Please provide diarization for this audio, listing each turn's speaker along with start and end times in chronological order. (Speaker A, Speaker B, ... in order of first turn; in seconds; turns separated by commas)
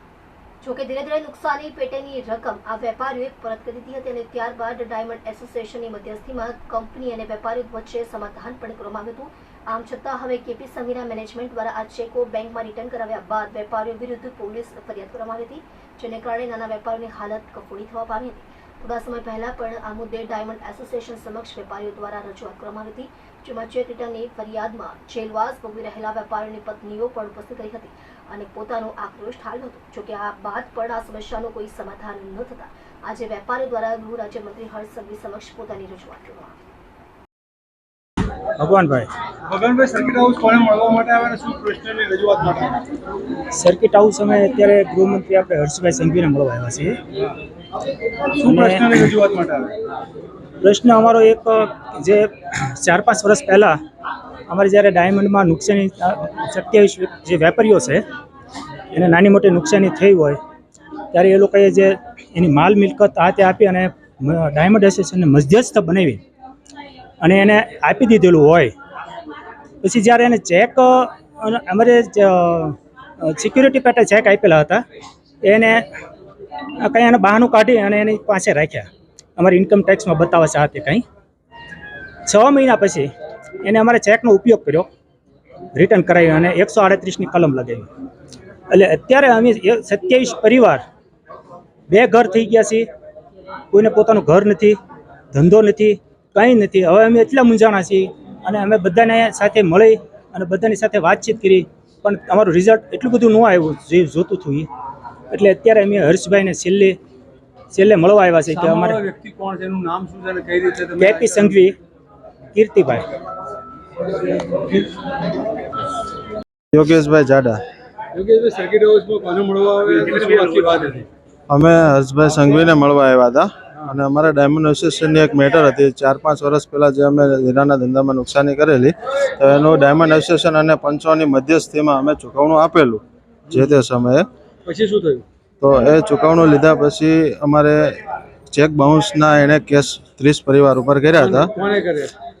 Speaker A: 0.6-36.5, Speaker B: 38.6-39.1, Speaker C: 39.4-42.8, Speaker B: 43.5-47.0, Speaker C: 48.4-49.7, Speaker B: 48.4-49.2, Speaker B: 50.6-53.8, Speaker B: 54.5-58.0, Speaker B: 58.9-60.4, Speaker B: 61.1-66.2, Speaker B: 67.2-68.7, Speaker B: 69.8-74.8, Speaker B: 75.4-75.9, Speaker B: 76.8-81.0, Speaker B: 82.2-84.9, Speaker B: 85.7-87.9, Speaker B: 88.7-90.8, Speaker B: 91.9-92.9, Speaker B: 93.7-94.8, Speaker B: 95.3-104.7, Speaker B: 105.3-107.0, Speaker B: 107.7-109.0, Speaker C: 108.5-111.5, Speaker B: 111.0-111.8, Speaker B: 112.5-113.1, Speaker D: 116.7-117.6, Speaker C: 118.1-121.1, Speaker D: 121.5-134.2, Speaker C: 134.6-135.2, Speaker D: 135.6-138.0, Speaker D: 138.5-141.5, Speaker C: 141.2-142.1